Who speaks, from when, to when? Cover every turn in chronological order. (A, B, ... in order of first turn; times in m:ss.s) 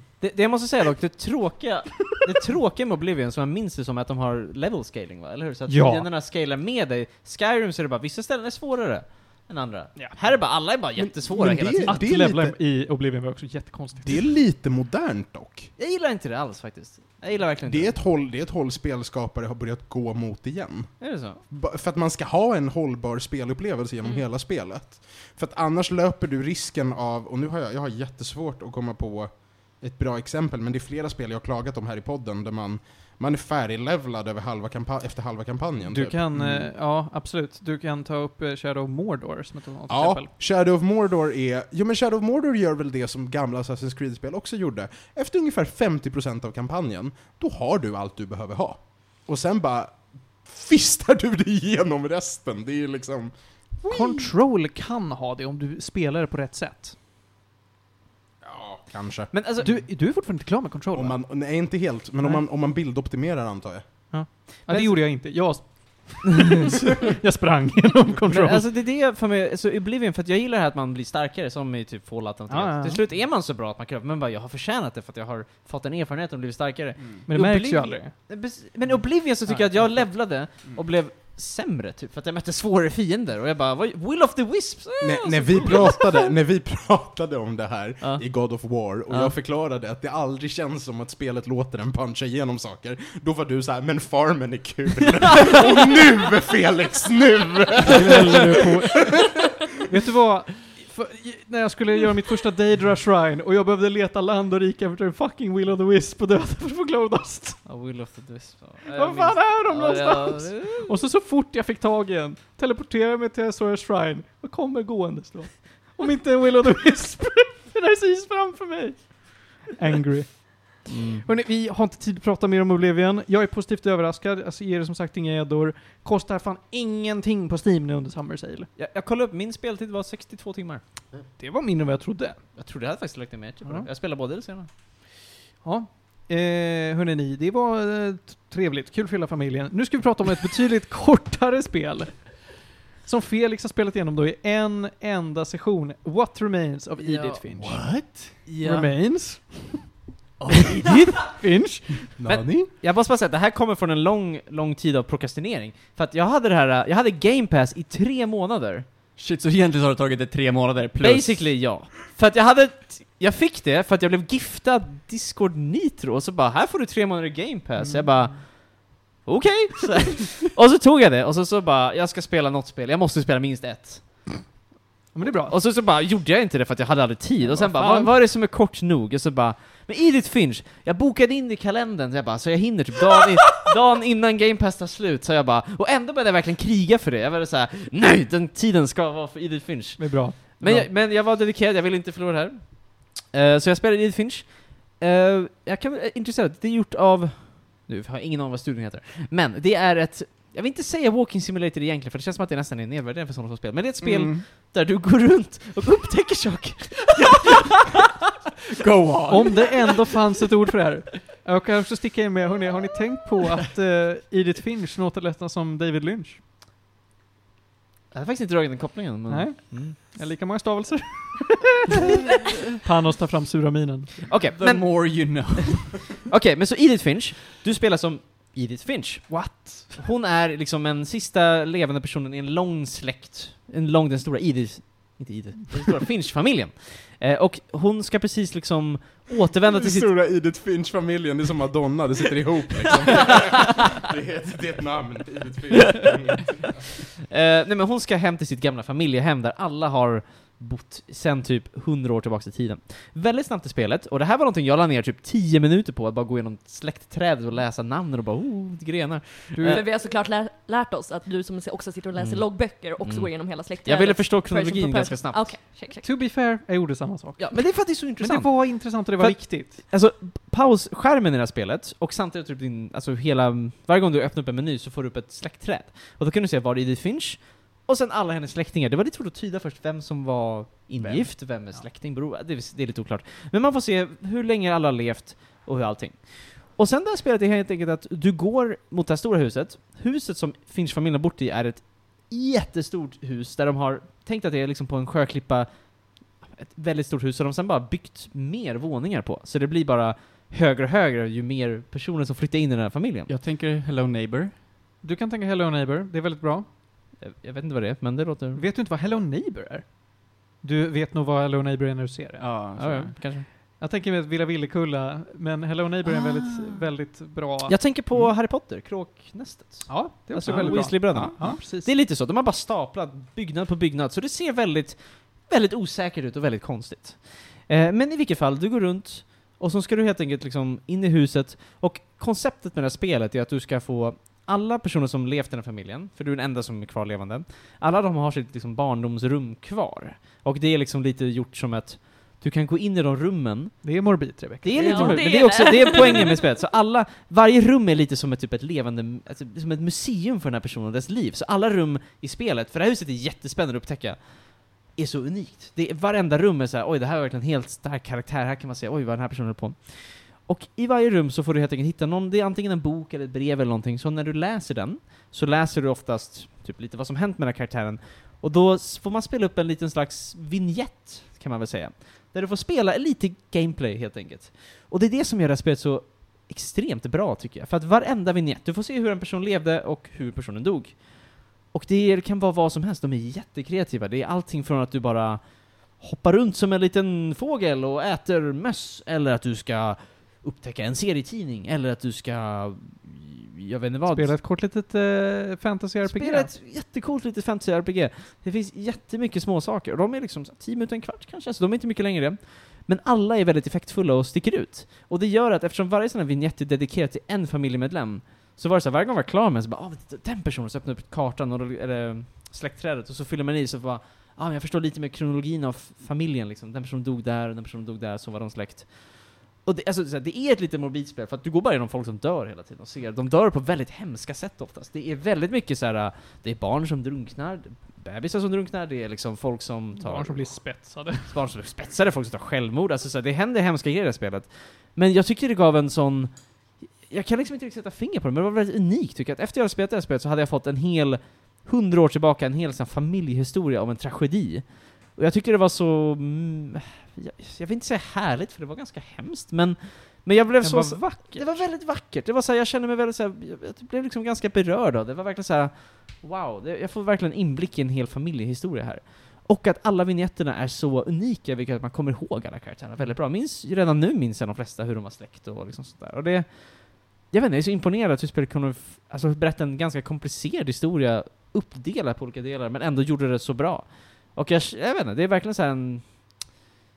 0:00.2-0:12.0 A
0:05.7-0:06.1 B
0:11.0-0:12.6 C
0:11.8-0:14.2 B
0:14.0-0:15.7 C
0:15.8-0:18.0 A
0:17.6-0:20.9 C
0:21.0-0:21.4 A
0:21.5-0:36.5 C
0:35.9-0:40.3 B
0:39.9-0:54.2 C
0:53.8-0:56.9 B
0:58.4-0:59.3 C
0:59.3-0:59.7 A
0:59.6-1:01.2 B
1:00.9-1:03.8 C
1:04.1-1:08.7 B
1:04.6-1:05.0 A
1:08.3-1:26.2 A
1:12.5-1:13.0 B
1:17.3-1:18.1 B
1:25.0-1:38.4 C
1:37.8-1:39.2 B
1:39.8-1:47.6 B
1:47.6-1:50.9 A
1:48.9-2:08.7 B
2:00.9-2:01.2 A
2:08.8-2:10.8 A
2:11.4-2:12.4 B
2:12.6-2:14.7 A
2:15.6-2:22.5 B
2:23.0-2:27.8 B
2:27.0-2:27.7 A
2:27.6-2:28.3 D
2:28.4-2:28.9 A
2:28.6-2:29.9 B
2:30.6-2:31.2 A
2:30.7-2:32.1 B
2:32.2-2:32.7 C
2:32.2-2:38.9 A
2:39.2-2:41.6 D
2:41.0-2:54.4 A
2:47.8-2:48.4 B
2:55.1-2:55.6 B
2:55.3-3:28.1 A
2:57.4-2:58.1 B
3:10.0-3:10.9 B
3:24.0-3:24.4 D
3:28.8-3:29.6 D
3:29.3-3:36.4 B
3:38.1-3:40.0 A
3:39.3-3:42.2 B
3:42.8-3:44.3 B
3:44.3-4:00.1 A
3:44.6-3:46.0 D
3:49.3-3:50.0 B
3:59.7-4:06.8 C
4:07.3-4:19.8 A
4:19.5-4:19.8 B
4:19.6-4:26.2 E
4:22.2-4:25.6 A
4:26.0-4:29.8 B
4:27.4-5:03.3 A
4:41.0-4:41.8 B
5:03.3-5:04.5 D
5:05.0-5:06.7 B
5:07.2-5:08.6 A
5:08.5-5:12.4 B
5:12.4-5:13.2 D
5:12.8-5:13.5 A
5:13.8-5:17.7 B
5:17.6-5:44.0 A
5:19.9-5:21.9 B
5:20.4-5:21.6 D
5:43.8-5:45.9 B
5:44.6-6:34.4 A
5:44.8-5:46.4 E
6:34.1-6:36.5 B
6:36.0-7:56.4 A
7:10.0-7:11.3 B
7:30.6-7:31.6 B